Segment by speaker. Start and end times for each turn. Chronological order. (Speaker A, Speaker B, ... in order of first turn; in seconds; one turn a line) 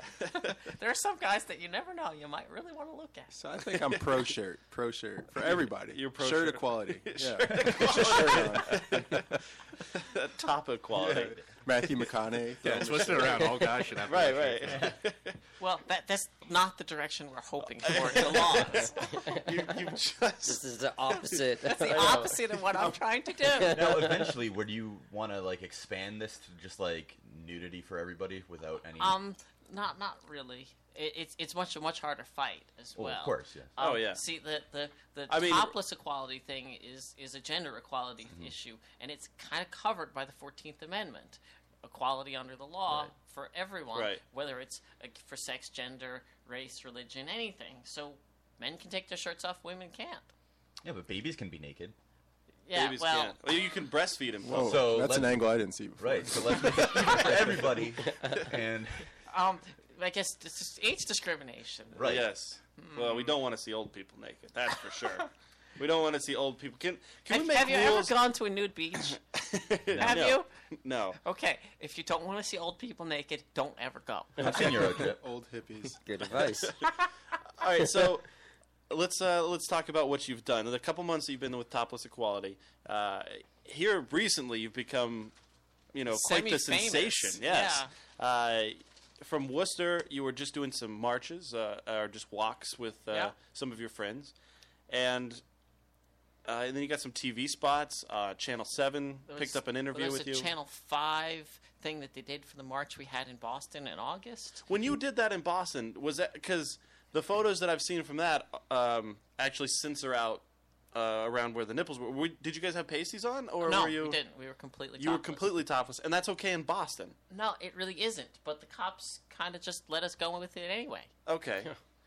Speaker A: 0.3-3.3
Speaker B: 3.3-9.2
Speaker C: 3.9-4.2
Speaker C: 5.4-9.2
Speaker D: 7.5-8.8
Speaker C: 10.0-11.4
Speaker B: 10.9-13.7
Speaker E: 12.6-14.9
Speaker C: 12.8-13.4
Speaker C: 14.0-15.3
Speaker D: 14.7-15.0
Speaker A: 15.6-19.0
Speaker C: 17.9-21.4
Speaker F: 19.1-19.4
Speaker F: 20.4-22.3
Speaker A: 21.6-23.8
Speaker C: 21.9-22.2
Speaker D: 22.0-22.3
Speaker F: 23.5-24.4
Speaker D: 23.7-29.2
Speaker A: 29.0-50.3
Speaker D: 33.0-33.8
Speaker C: 33.8-34.2
Speaker C: 35.3-35.7
Speaker D: 42.9-43.1
Speaker C: 43.9-44.2
Speaker D: 50.8-52.0
Speaker A: 52.7-53.4
Speaker C: 52.7-54.8
Speaker B: 54.4-56.9
Speaker D: 54.5-59.1
Speaker A: 59.3-62.1
Speaker D: 61.9-62.3
Speaker C: 62.0-68.2
Speaker A: 62.8-63.4
Speaker A: 67.3-69.2
Speaker C: 69.1-71.2
Speaker D: 69.9-70.3
Speaker A: 70.0-70.5
Speaker A: 71.2-74.4
Speaker D: 74.4-75.2
Speaker B: 74.6-76.0
Speaker F: 76.0-76.8
Speaker C: 77.6-78.3
Speaker C: 78.9-85.3
Speaker C: 85.9-94.3
Speaker A: 86.1-87.9
Speaker A: 93.1-93.3
Speaker C: 94.9-95.4
Speaker C: 96.5-100.5
Speaker A: 99.3-104.6
Speaker C: 104.7-114.2
Speaker A: 113.6-115.4
Speaker C: 115.0-117.2
Speaker A: 117.3-121.1
Speaker C: 121.3-121.7